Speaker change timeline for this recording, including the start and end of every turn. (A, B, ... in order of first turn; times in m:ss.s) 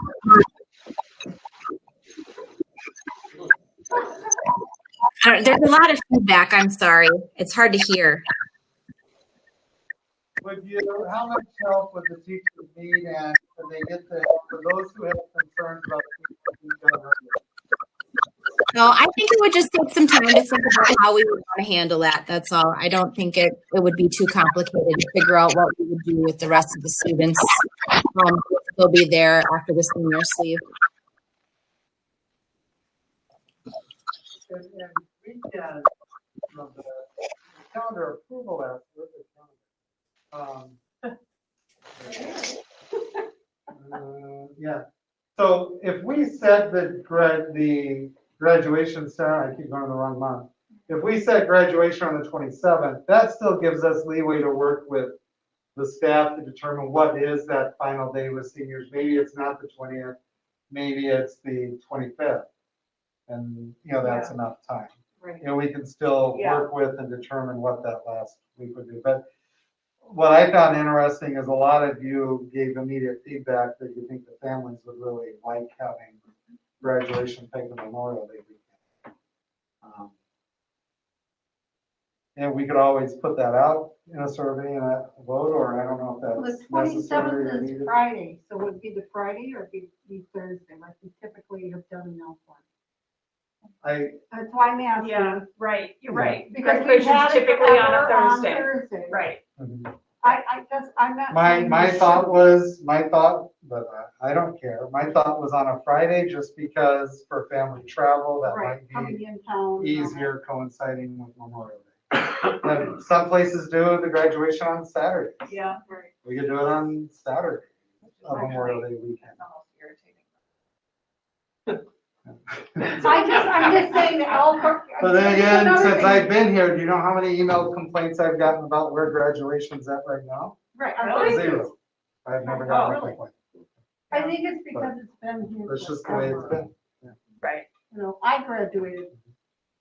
0:05.2-0:08.2 A
0:10.4-0:17.4 B
0:18.7-0:27.6 A
0:28.1-0:30.6 A
0:34.4-0:35.9 B
0:36.5-0:39.6 B
0:40.3-0:40.8 B
0:42.0-0:42.3 B
0:43.7-0:44.8 B
0:45.4-0:55.2 B
0:55.7-1:00.2 B
1:00.7-1:02.4 B
1:03.3-1:09.2 B
1:04.0-1:04.3 C
1:06.3-1:06.7 C
1:10.0-1:16.2 B
1:16.8-1:18.6 B
1:19.8-1:20.1 B
1:22.4-1:28.0 B
1:26.4-1:32.6 D
1:33.8-1:34.2 B
1:34.3-1:35.4 D
1:35.0-1:39.4 C
1:36.1-1:36.4 B
1:36.4-1:39.2 D
1:39.6-1:39.9 B
1:40.2-1:42.3 D
1:41.3-1:49.2 B
1:48.4-1:50.3 D
1:49.8-1:55.5 B
1:55.4-1:56.1 C
1:56.2-1:57.7 B
1:58.1-2:00.2 C
1:58.2-1:59.4 B
2:02.3-2:03.1 B
2:03.0-2:06.3 D
2:05.0-2:10.6 B
2:10.8-2:11.7 D
2:10.8-2:11.5 C
2:11.1-2:11.7 B
2:12.2-2:13.3 B
2:12.4-2:13.2 D
2:12.7-2:13.0 C
2:14.1-2:16.6 D
2:15.6-2:17.2 B
2:17.4-2:17.6 C
2:17.9-2:19.1 D